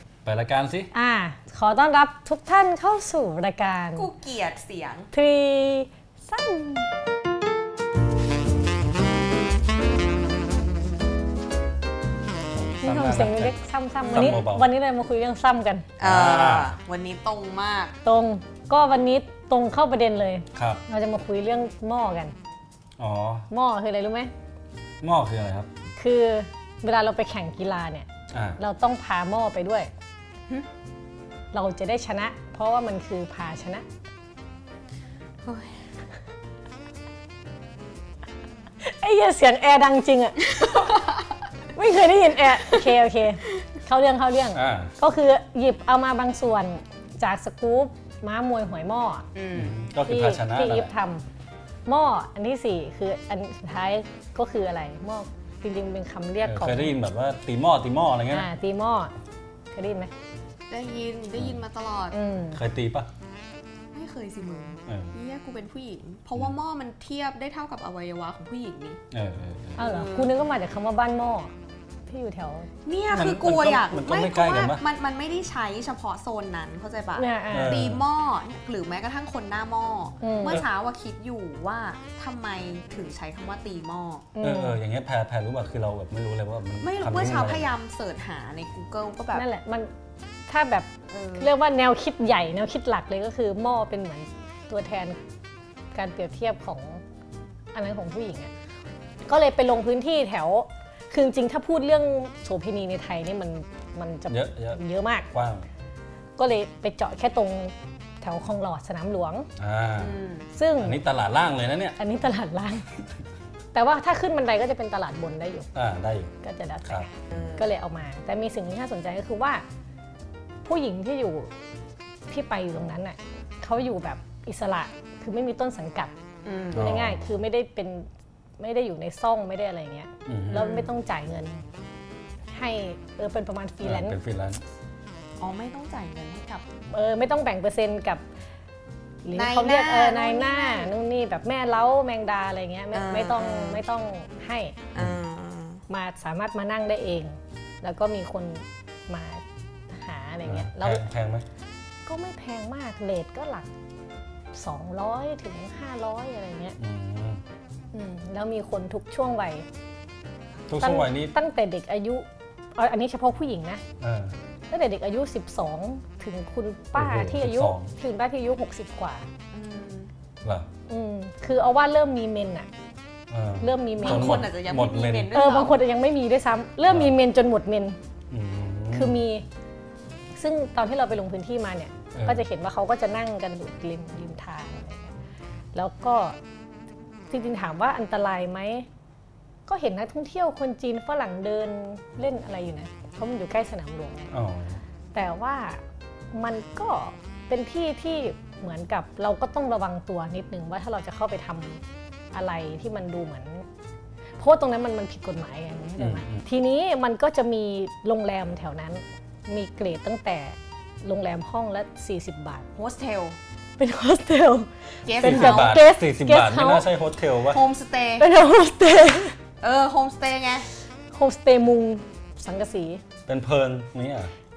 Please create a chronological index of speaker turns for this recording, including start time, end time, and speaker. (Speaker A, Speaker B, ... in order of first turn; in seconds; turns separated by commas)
Speaker A: 0.2-0.9, Speaker B: 0.9-4.1, Speaker C: 3.9-5.1, Speaker B: 5.1-6.9, Speaker A: 12.5-13.6, Speaker B: 12.8-15.9, Speaker C: 14.0-14.4, Speaker A: 14.1-14.7, Speaker C: 16.0-17.9, Speaker A: 16.0-16.7, Speaker B: 18.0-22.3, Speaker A: 20.5-20.8, Speaker A: 23.0-23.5, Speaker B: 23.5-24.3, Speaker A: 25.0-25.7, Speaker B: 26.0-28.1, Speaker A: 28.3-28.6, Speaker B: 28.6-29.9, Speaker B: 31.5-33.8, Speaker C: 35.4-35.7, Speaker B: 38.8-41.0, Speaker C: 40.6-41.1, Speaker B: 41.7-49.3, Speaker A: 44.5-44.9, Speaker C: 49.3-49.7, Speaker A: 49.5-50.9, Speaker B: 50.0-51.2, Speaker B: 51.9-57.0, Speaker A: 56.4-58.5, Speaker B: 58.3-59.1, Speaker B: 59.7-60.1, Speaker C: 60.7-62.2, Speaker B: 62.1-62.6, Speaker A: 62.5-63.1, Speaker C: 63.9-69.0, Speaker A: 64.9-65.1, Speaker A: 69.1-69.8, Speaker B: 69.8-71.5, Speaker C: 69.8-70.3, Speaker B: 72.0-72.7, Speaker C: 72.8-84.2, Speaker A: 73.1-74.8, Speaker B: 77.2-77.8, Speaker A: 77.5-78.0, Speaker B: 80.2-80.6, Speaker B: 84.3-84.8, Speaker A: 84.4-87.7, Speaker C: 86.8-89.4, Speaker B: 89.3-89.9, Speaker B: 90.5-95.2, Speaker C: 91.1-91.5, Speaker B: 95.9-97.0, Speaker B: 97.7-98.5, Speaker B: 99.2-105.3, Speaker A: 104.3-105.7, Speaker B: 106.4-109.5, Speaker A: 109.6-110.2, Speaker C: 110.0-110.5, Speaker B: 110.5-111.0, Speaker A: 110.8-112.0, Speaker B: 112.0-112.9, Speaker B: 113.7-115.7, Speaker A: 115.7-116.3, Speaker B: 116.4-119.6, Speaker C: 117.3-117.7, Speaker B: 120.6-121.5, Speaker B: 122.3-126.1, Speaker C: 126.4-126.9, Speaker A: 126.7-127.4, Speaker B: 126.8-128.1, Speaker B: 128.6-131.6, Speaker A: 130.2-130.7, Speaker C: 130.5-130.9, Speaker B: 132.5-134.2, Speaker A: 133.8-134.6, Speaker C: 135.4-136.6, Speaker B: 136.9-138.2, Speaker B: 139.2-144.7, Speaker C: 139.3-140.9, Speaker C: 142.9-143.8, Speaker C: 144.9-145.8, Speaker B: 145.9-151.1, Speaker A: 150.4-151.4, Speaker B: 152.1-153.7, Speaker B: 154.5-156.8, Speaker A: 156.8-157.4, Speaker B: 157.9-159.6, Speaker A: 160.7-161.3, Speaker B: 160.8-163.8, Speaker A: 164.0-164.3, Speaker B: 164.7-169.3, Speaker A: 166.9-167.9, Speaker C: 169.5-170.1, Speaker B: 170.9-172.7, Speaker A: 173.3-175.4, Speaker B: 173.6-174.5, Speaker C: 174.0-175.8, Speaker B: 175.3-178.0, Speaker A: 176.9-177.2, Speaker A: 178.3-179.2, Speaker B: 178.9-179.4, Speaker B: 180.4-185.1, Speaker A: 182.1-182.4, Speaker B: 185.7-186.4, Speaker B: 187.3-188.9, Speaker B: 189.7-194.3, Speaker A: 194.3-194.8, Speaker B: 195.1-195.8, Speaker B: 196.3-203.7, Speaker B: 204.4-212.7, Speaker A: 206.0-206.4, Speaker C: 212.8-213.4, Speaker B: 213.8-216.9, Speaker C: 215.1-215.8, Speaker A: 215.2-217.6, Speaker C: 217.4-218.3, Speaker B: 218.2-219.3, Speaker C: 219.6-220.7, Speaker B: 221.1-223.0, Speaker A: 223.3-224.3